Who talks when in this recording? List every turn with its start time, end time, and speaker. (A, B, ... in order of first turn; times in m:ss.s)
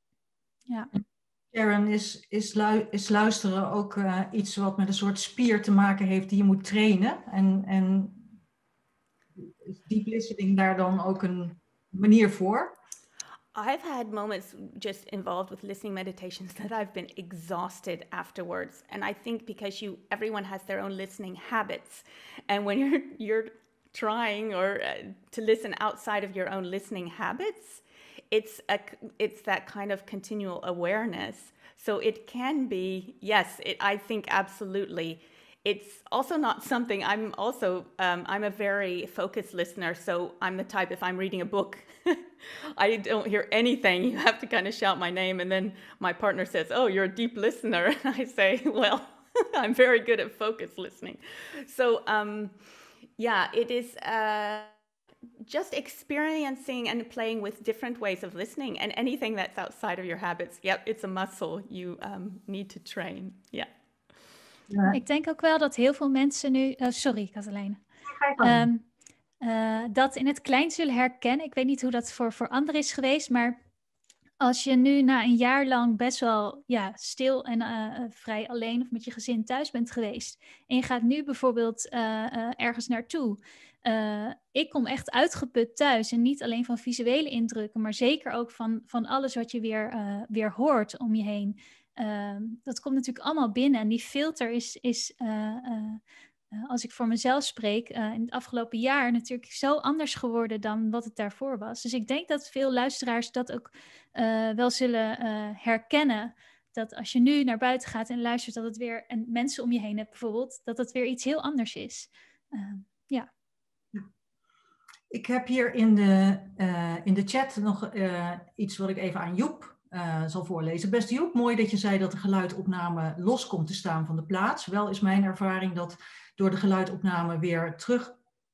0:01.5-0:08.3 A
0:09.4-0:12.8 A
0:13.6-0:52.6 B
0:53.2-0:54.8 B
0:55.4-1:03.7 B
1:04.7-1:05.0 A
1:04.9-1:07.8 C
1:08.1-1:08.7 A
1:08.4-1:08.8 C
1:09.4-1:13.6 C
1:14.4-1:36.0 C
1:36.6-1:53.3 C
1:55.1-2:08.2 A